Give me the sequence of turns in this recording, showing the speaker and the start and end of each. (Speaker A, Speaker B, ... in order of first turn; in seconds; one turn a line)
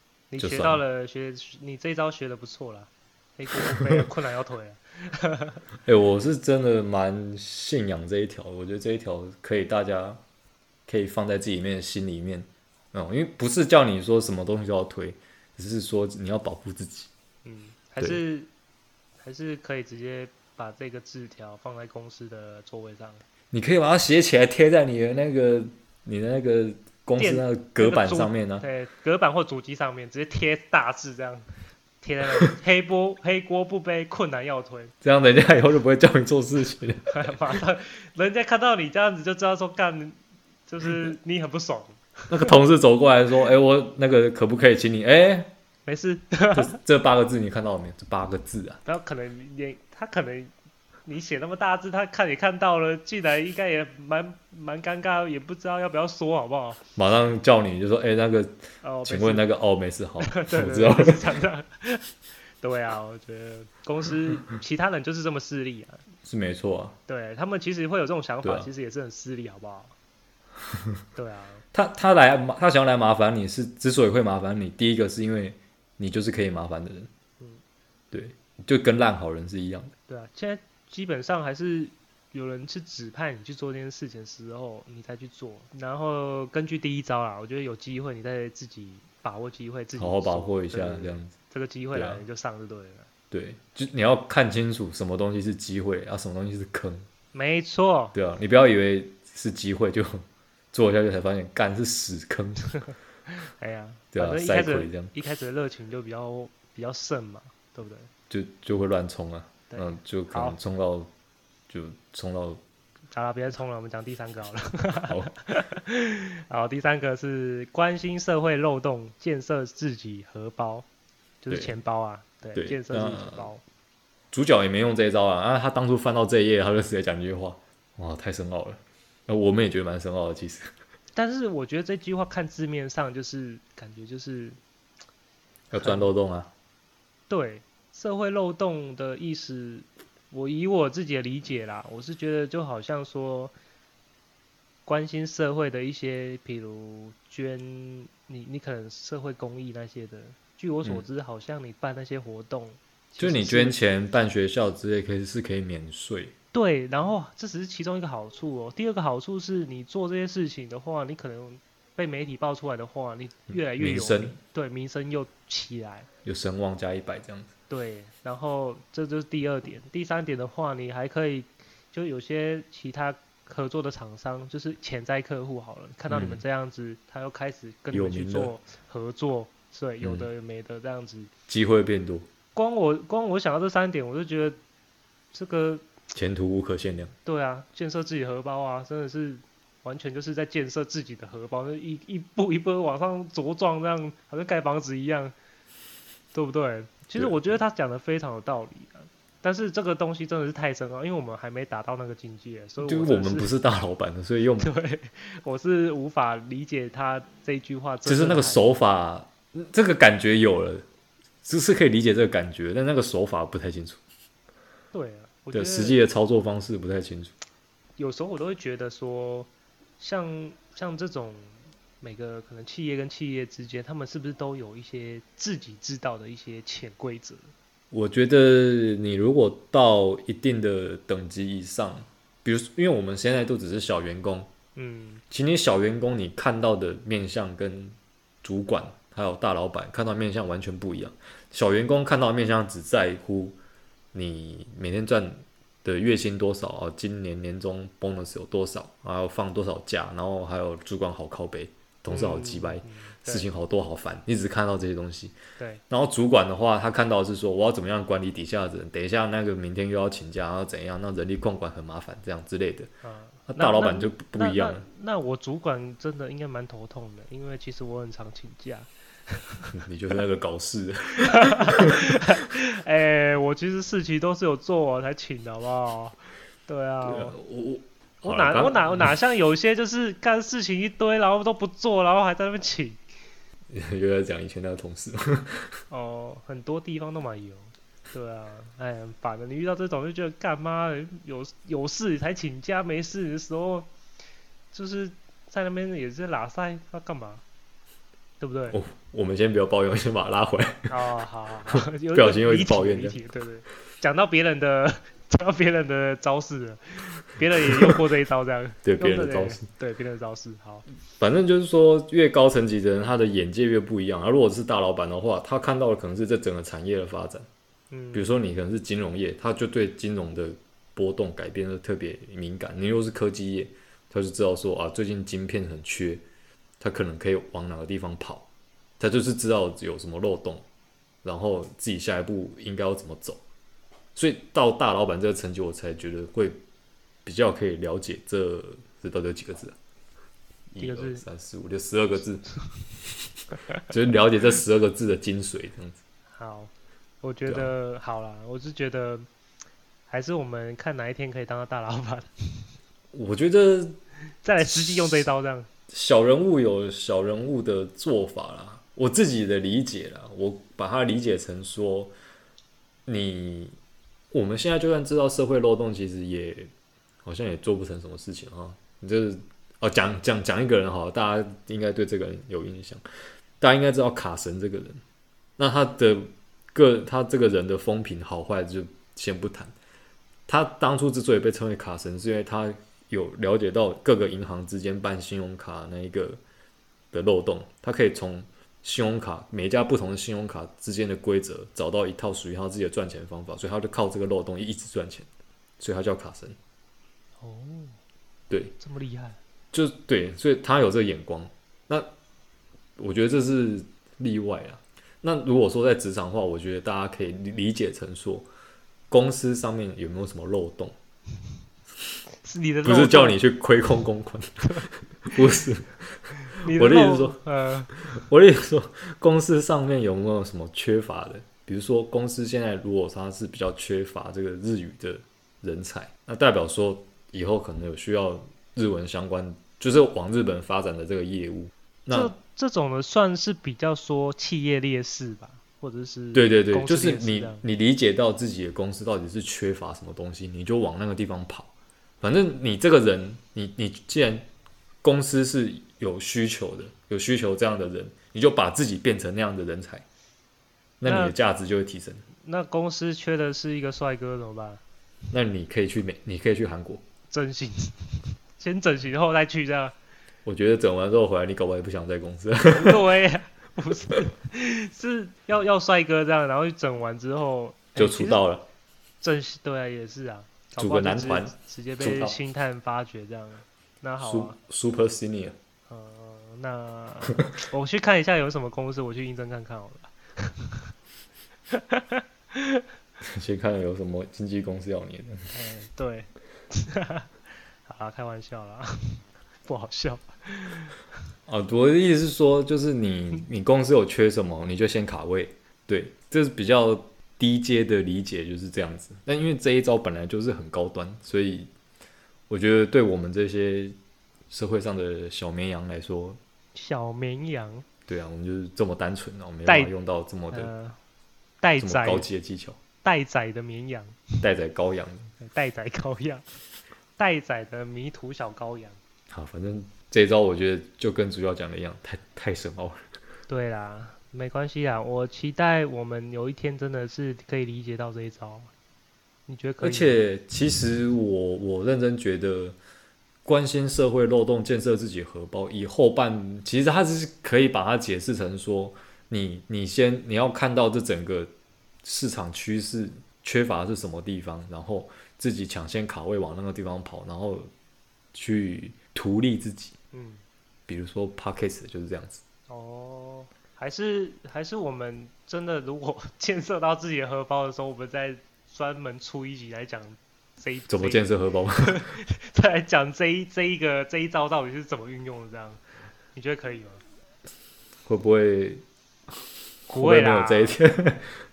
Speaker A: 0.3-5.6
Speaker B: 0.4-0.8
Speaker B: 5.8-10.2
Speaker B: 10.9-17.1
Speaker A: 17.4-18.5
Speaker A: 19.2-23.2
Speaker B: 23.5-28.7
Speaker A: 27.2-31.5
Speaker A: 32.0-34.9
Speaker B: 35.0-37.3
Speaker A: 37.1-42.5
Speaker B: 42.3-45.5
Speaker A: 45.9-46.8
Speaker B: 46.5-48.8
Speaker A: 48.9-50.5
Speaker A: 51.1-56.8
Speaker B: 57.0-61.2
Speaker A: 58.8-59.5
Speaker A: 60.2-62.1
Speaker A: 62.6-66.0
Speaker B: 66.2-67.0
Speaker A: 67.1-69.9
Speaker B: 68.4-68.7
Speaker A: 71.2-71.6
Speaker B: 71.7-77.1
Speaker B: 78.1-79.9
Speaker A: 80.1-93.1
Speaker B: 90.0-91.3
Speaker B: 91.9-92.2
Speaker B: 93.3-97.1
Speaker A: 97.3-98.2
Speaker B: 98.2-102.7
Speaker A: 103.3-108.1
Speaker B: 104.1-105.1
Speaker B: 108.3-111.1
Speaker A: 109.7-110.6
Speaker B: 111.7-112.6
Speaker A: 113.1-120.9
Speaker A: 121.4-123.6
Speaker B: 122.5-123.5
Speaker B: 124.3-130.7
Speaker A: 131.2-134.6
Speaker B: 135.7-136.5
Speaker A: 135.8-136.1
Speaker A: 137.3-143.5
Speaker A: 144.9-153.8
Speaker B: 153.2-156.3
Speaker A: 156.5-166.1
Speaker B: 163.8-164.4
Speaker B: 166.2-167.5
Speaker A: 167.7-181.3
Speaker B: 176.1-176.4
Speaker B: 177.9-178.5
Speaker B: 180.0-180.3
Speaker B: 181.5-182.3
Speaker A: 182.6-184.6
Speaker A: 185.3-185.8
Speaker B: 186.1-187.1
Speaker A: 187.2-195.3
Speaker A: 196.3-203.5
Speaker B: 202.8-204.7
Speaker A: 204.6-208.7
Speaker B: 208.1-210.8
Speaker B: 211.4-214.0
Speaker A: 214.9-216.0
Speaker B: 215.5-217.3
Speaker A: 218.0-227.5
Speaker B: 227.9-234.5
Speaker A: 234.8-235.2
Speaker B: 235.3-243.6
Speaker B: 244.1-255.4
Speaker A: 252.1-253.5
Speaker B: 255.9-262.9
Speaker A: 263.0-269.8
Speaker B: 263.5-264.9
Speaker B: 269.7-272.1
Speaker A: 271.2-277.4
Speaker B: 277.1-279.1
Speaker A: 278.2-283.0
Speaker B: 283.7-285.7
Speaker A: 285.9-293.9
Speaker A: 294.7-297.4
Speaker A: 298.4-298.8
Speaker B: 298.7-301.0
Speaker A: 300.9-310.9
Speaker B: 301.7-303.2
Speaker B: 307.7-307.9
Speaker B: 308.9-309.6
Speaker B: 311.2-317.5
Speaker A: 317.9-318.3
Speaker B: 318.1-326.2
Speaker B: 326.8-328.5
Speaker B: 329.0-330.6
Speaker B: 331.2-333.4
Speaker B: 334.1-336.6
Speaker B: 337.2-339.8
Speaker B: 340.7-342.5
Speaker A: 340.8-341.2
Speaker B: 343.9-346.0
Speaker A: 346.4-346.7
Speaker A: 347.2-349.3
Speaker B: 347.5-347.7
Speaker A: 350.1-352.7
Speaker B: 353.1-354.0
Speaker A: 354.4-355.7
Speaker B: 354.6-355.3
Speaker B: 355.9-362.1
Speaker B: 363.1-363.8
Speaker B: 364.3-366.7
Speaker B: 367.2-373.0
Speaker B: 373.6-375.0
Speaker B: 375.6-379.7
Speaker B: 380.5-386.4
Speaker B: 387.1-395.3
Speaker B: 395.8-396.6
Speaker A: 397.4-398.0
Speaker B: 398.5-398.8
Speaker A: 398.8-399.4
Speaker B: 399.7-402.1
Speaker B: 403.0-408.5
Speaker B: 409.1-410.9
Speaker A: 412.4-413.4
Speaker B: 412.8-417.4
Speaker A: 414.6-415.4
Speaker A: 416.5-417.9
Speaker B: 417.9-432.3
Speaker A: 432.1-437.6
Speaker B: 436.3-444.5
Speaker B: 445.0-450.1
Speaker B: 451.0-452.2
Speaker A: 451.0-451.3
Speaker A: 452.4-454.8
Speaker B: 455.3-457.0
Speaker A: 457.3-459.9
Speaker B: 460.4-463.0
Speaker A: 462.7-468.4
Speaker B: 468.0-468.7
Speaker A: 469.2-474.6
Speaker B: 470.8-472.4
Speaker B: 474.2-475.6
Speaker A: 475.9-480.9
Speaker A: 481.7-482.8
Speaker B: 483.2-485.5
Speaker A: 485.5-487.3
Speaker A: 487.9-491.0
Speaker B: 491.5-501.7
Speaker B: 502.5-504.0
Speaker B: 504.5-506.4
Speaker A: 506.8-507.9
Speaker B: 508.1-510.7
Speaker A: 509.7-509.9
Speaker A: 510.5-511.0
Speaker A: 511.6-512.3
Speaker B: 511.8-512.8
Speaker A: 513.0-514.4
Speaker B: 514.4-515.3
Speaker A: 515.4-516.5
Speaker A: 517.2-519.0
Speaker B: 519.3-523.0
Speaker A: 523.5-528.7
Speaker A: 529.5-530.2
Speaker B: 529.8-532.8
Speaker B: 533.5-541.5
Speaker B: 542.0-547.7
Speaker B: 548.3-550.0
Speaker A: 550.1-550.4
Speaker B: 550.9-552.4
Speaker A: 552.7-561.2
Speaker B: 560.9-562.1
Speaker A: 561.8-565.8
Speaker A: 566.3-567.0
Speaker B: 568.1-568.8
Speaker B: 569.9-571.4
Speaker A: 569.9-570.8